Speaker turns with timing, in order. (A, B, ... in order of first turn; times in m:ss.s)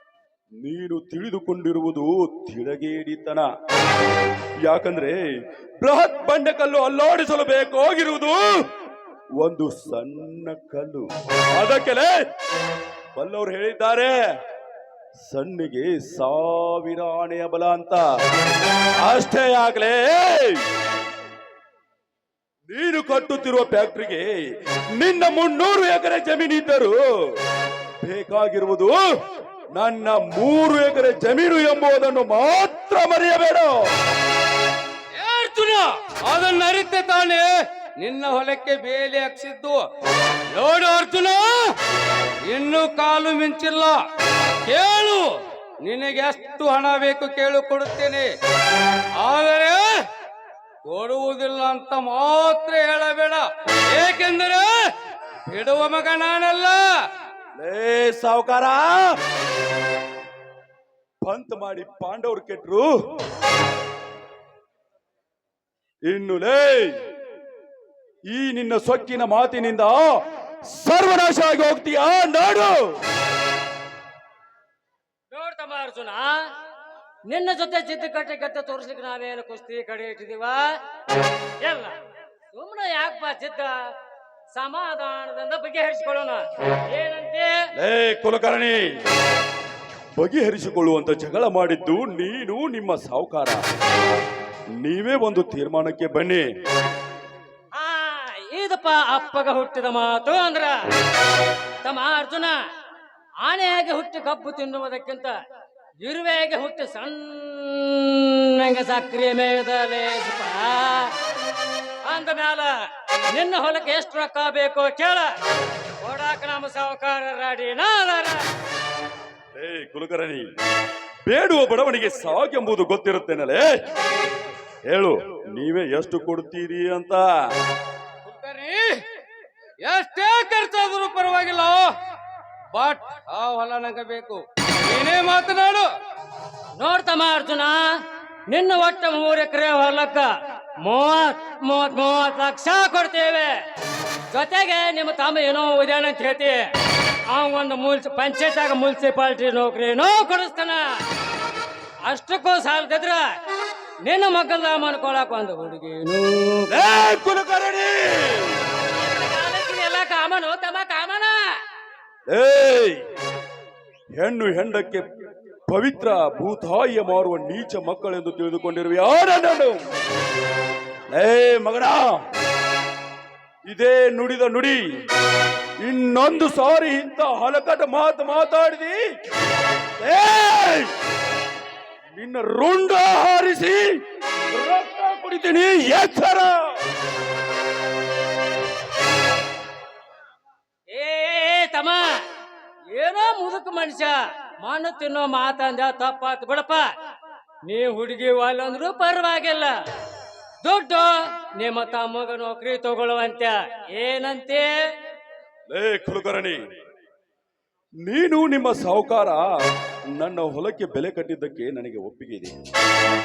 0:00.6-0:03.5 A
0:04.6-0:05.2 A
0:05.8-0:08.6 A
0:09.4-0:12.2 A
0:13.2-0:14.2 A
0:15.2-0:18.0 A
0:19.0-0:20.6 A
0:22.7-0:24.4 A
0:25.0-0:27.4 A
0:28.0-0:29.0 A
0:29.7-0:33.9 A
0:35.2-0:39.8 B
0:40.5-0:41.7 B
0:42.5-0:44.0 B
0:44.7-0:45.3 B
0:45.8-0:48.3 B
0:49.2-0:50.0 B
0:50.9-0:54.8 B
0:55.5-0:56.9 B
0:57.6-0:59.2 A
1:01.2-1:03.0 A
1:06.1-1:07.0 A
1:08.3-1:13.0 A
1:15.3-1:16.5 C
1:17.3-1:20.7 C
1:21.6-1:22.0 C
1:22.5-1:23.8 C
1:24.5-1:27.6 C
1:27.8-1:28.8 A
1:30.2-1:33.6 A
1:34.8-1:36.5 A
1:37.8-1:40.8 C
1:41.8-1:42.6 C
1:43.4-1:45.4 C
1:46.0-1:51.1 C
1:52.1-1:52.7 C
1:53.3-1:55.3 C
1:56.0-1:58.4 C
1:59.6-2:00.5 A
2:01.3-2:03.8 A
2:04.9-2:07.2 A
2:08.2-2:09.0 B
2:09.8-2:11.9 B
2:12.7-2:15.9 B
2:16.8-2:17.8 C
2:18.5-2:20.3 C
2:20.8-2:23.6 C
2:24.3-2:26.6 C
2:27.3-2:30.9 C
2:32.1-2:33.3 C
2:34.0-2:36.7 C
2:36.7-2:38.6 A
2:38.9-2:41.4 C
2:42.3-2:43.0 A
2:44.2-2:45.1 A
2:45.7-2:49.8 A
2:51.1-2:52.1 A
2:53.7-2:54.8 A
2:55.8-2:59.0 A
3:00.0-3:00.9 A
3:02.2-3:04.0 A
3:04.5-3:06.8 A
3:10.9-3:12.0 C
3:12.9-3:16.9 C
3:17.7-3:19.7 C
3:20.6-3:24.7 C
3:25.7-3:26.6 A
3:28.0-3:29.5 A
3:30.1-3:32.5 A